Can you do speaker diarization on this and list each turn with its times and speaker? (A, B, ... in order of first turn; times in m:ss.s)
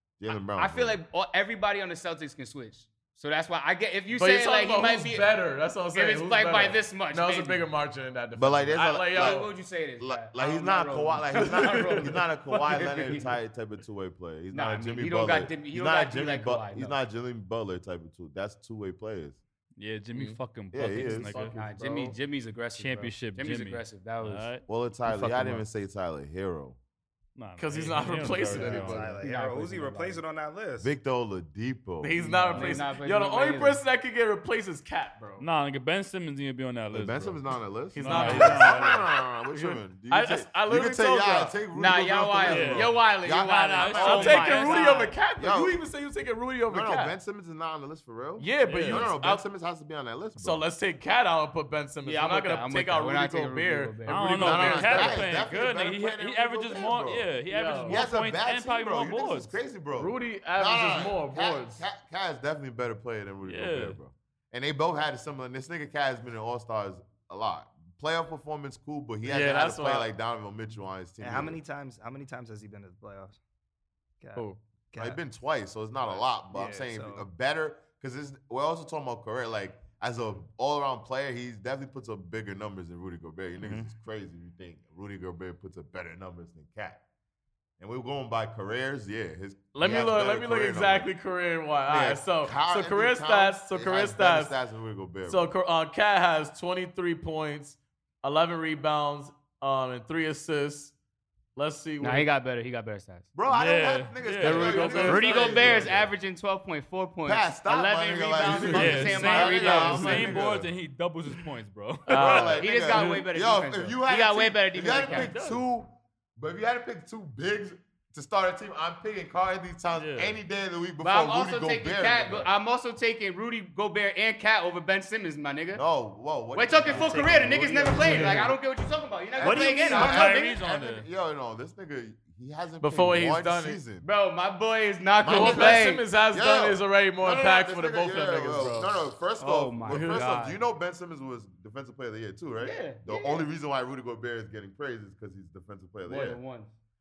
0:00.2-0:01.0 A
0:00.3-0:05.3 B
0:04.1-0:09.5 C
0:05.9-0:07.6 B
0:08.4-0:19.4 A
0:09.0-0:13.4 B
0:11.4-0:12.1 C
0:14.5-0:17.0 B
0:19.8-0:21.6 D
0:20.1-0:20.4 C
0:20.7-0:21.4 A
0:21.0-0:22.2 C
0:21.5-0:25.6 B
0:22.7-0:24.7 D
0:24.7-0:26.8 A
0:27.4-0:29.1 D
0:27.6-0:29.1 C
0:28.2-0:30.9 E
0:29.0-0:30.2 B
0:30.8-0:32.8 A
0:32.0-0:35.4 C
0:32.5-0:33.8 B
0:35.4-0:37.4 D
0:36.9-0:44.5 A
0:37.9-0:41.6 C
0:38.0-0:39.0 D
0:41.7-0:45.1 B
0:42.4-0:45.1 D
0:43.9-0:47.2 C
0:45.4-0:45.8 A
0:46.7-0:50.6 A
0:48.4-0:49.4 C
0:48.7-0:49.1 D
0:50.4-0:55.3 C
0:52.0-0:54.9 B
0:54.1-0:59.5 D
0:54.4-0:57.3 A
0:57.5-0:58.0 C
0:57.9-1:11.6 A
1:00.0-1:01.8 C
1:03.4-1:04.0 D
1:09.2-1:10.1 C
1:11.2-1:13.4 E
1:14.2-1:15.2 E
1:14.4-1:14.6 C
1:15.0-1:27.0 A
1:16.1-1:17.3 E
1:23.6-1:23.9 E
1:27.8-1:31.1 A
1:29.8-1:34.5 C
1:31.9-1:35.5 A
1:35.3-1:41.0 C
1:41.6-1:42.3 C
1:42.0-1:43.3 B
1:43.3-1:46.1 A
1:43.5-1:45.7 D
1:44.4-1:45.9 C
1:44.8-1:50.5 B
1:47.2-1:50.7 A
1:48.4-1:49.0 C
1:48.7-1:53.3 D
1:52.1-1:52.6 C
1:52.2-2:02.5 A
1:52.4-1:55.3 B
1:55.0-1:55.6 D
1:59.9-2:00.4 D
2:01.0-2:05.8 B
2:05.8-2:08.5 A
2:06.5-2:10.2 B
2:06.9-2:08.5 E
2:09.4-2:10.4 E
2:09.4-2:14.1 A
2:09.9-2:11.1 D
2:12.8-2:13.8 C
2:14.0-2:16.0 B
2:15.2-2:26.4 A
2:15.3-2:19.0 C
2:19.4-2:20.6 B
2:19.9-2:20.3 C
2:22.6-2:23.4 B
2:26.0-2:26.7 B